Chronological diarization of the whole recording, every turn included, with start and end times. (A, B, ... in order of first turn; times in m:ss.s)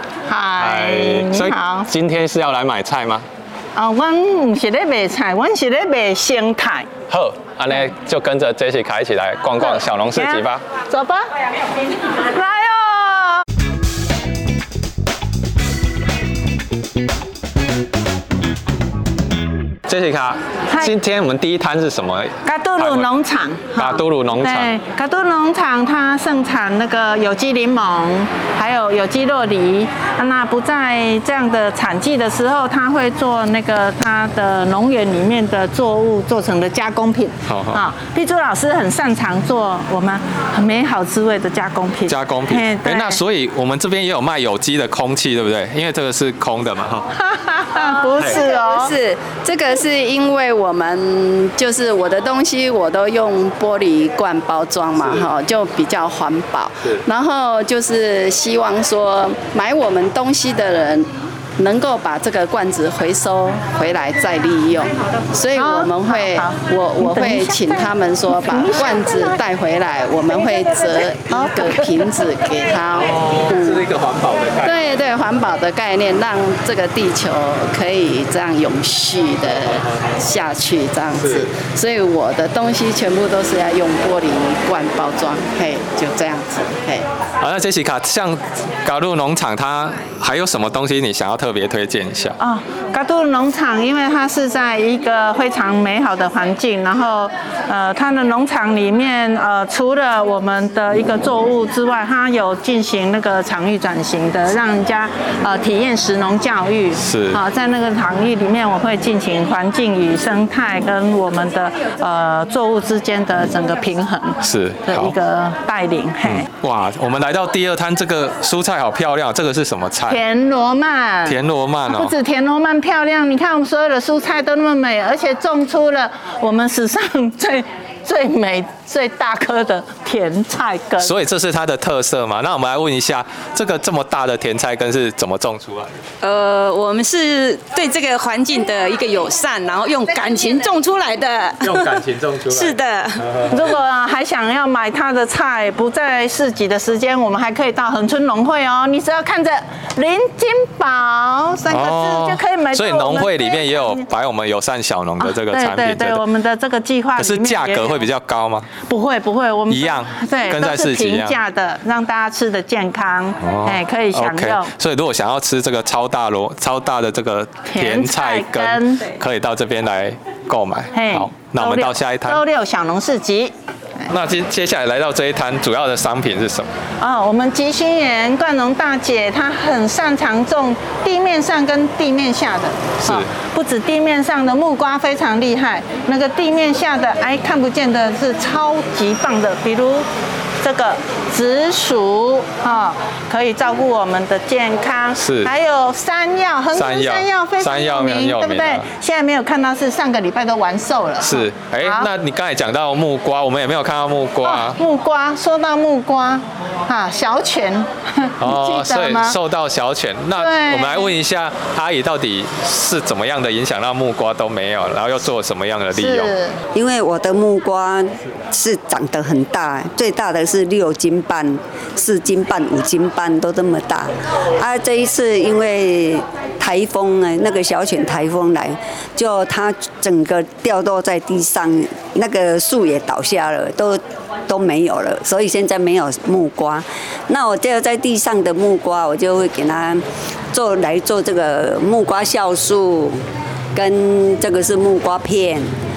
0:00.3-0:01.9 A
0:00.6-0:03.2 B
0:03.8-0:06.9 A
0:07.1-0:10.6 B
0:09.6-0:11.3 A
0:12.3-0:13.4 A
0:19.9-0:23.1 B
0:22.4-0:43.2 A
0:23.8-0:24.7 B
0:37.5-0:37.8 B
0:42.1-0:47.1 B
0:47.2-0:48.9 A
0:48.4-1:13.8 C
1:05.5-1:09.3 A
1:11.3-1:11.9 A
1:13.0-1:14.8 B
1:14.6-1:27.0 C
1:21.2-1:21.5 B
1:27.4-1:32.4 B
1:32.4-1:56.5 A
1:47.0-1:47.4 B
1:54.4-1:55.1 B
1:56.2-2:00.2 B
2:00.1-2:11.1 A
2:01.2-2:02.1 B
2:11.0-2:15.9 B
2:16.2-2:23.2 D
2:21.6-2:23.5 B
2:23.5-2:34.0 A
2:31.7-2:36.2 B
2:35.2-2:38.0 A
2:37.2-2:38.7 B
2:38.8-2:44.7 A
2:39.7-2:41.4 B
2:43.4-2:52.4 B
2:47.7-2:49.0 A
2:50.9-2:53.5 A
2:54.1-2:56.7 B
2:57.0-3:10.0 A
3:03.0-3:03.3 B
3:10.6-3:22.1 A
3:15.2-3:15.5 B
3:16.7-3:18.9 B
3:21.2-3:24.8 B
3:24.4-3:29.4 A
3:28.4-3:36.3 B
3:30.4-3:31.1 A
3:35.9-3:36.6 A
3:36.7-4:03.2 E
4:03.7-4:05.7 E